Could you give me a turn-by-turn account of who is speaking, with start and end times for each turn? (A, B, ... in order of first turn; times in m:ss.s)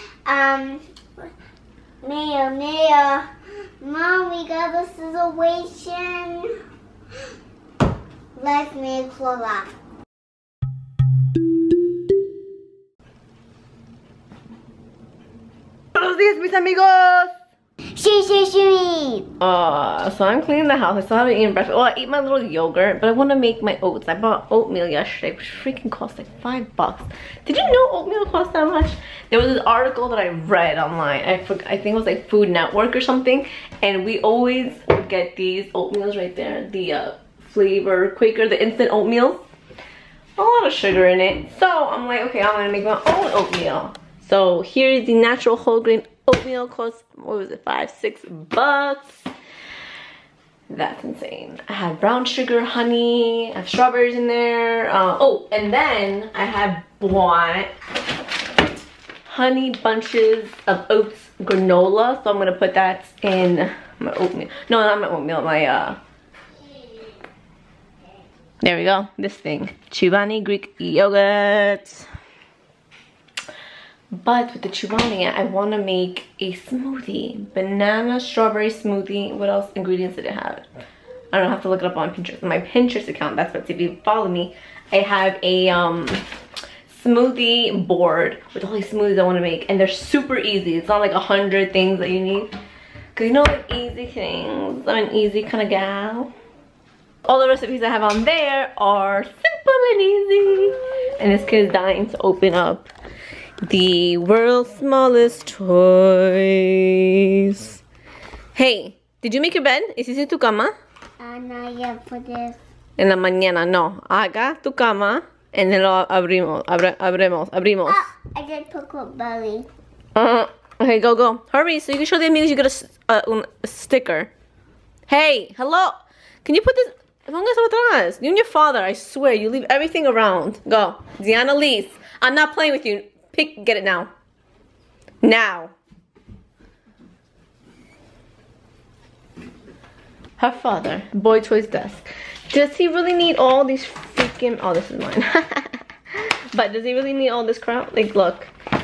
0:00.3-0:00.8 A
0:02.0-0:03.2 A
0:03.8-0:06.4 A
0:08.4-0:09.7 A
0:15.9-0:17.3 B
0:18.0-0:19.2 A
0:19.4-0:39.4 B
0:40.4-0:49.2 B
0:50.7-0:57.7 B
0:59.3-1:06.0 B
1:08.6-1:12.1 B
1:14.1-1:20.6 B
1:21.3-1:26.2 B
1:26.9-1:32.5 B
1:33.1-1:36.3 B
1:37.2-1:42.9 B
1:43.6-1:47.8 B
1:48.5-1:50.7 B
1:51.2-1:52.6 A
1:53.0-1:58.1 B
1:57.8-1:59.7 A
2:00.2-2:04.3 B
2:05.1-2:14.1 B
2:15.2-2:15.7 B
2:20.4-2:28.5 B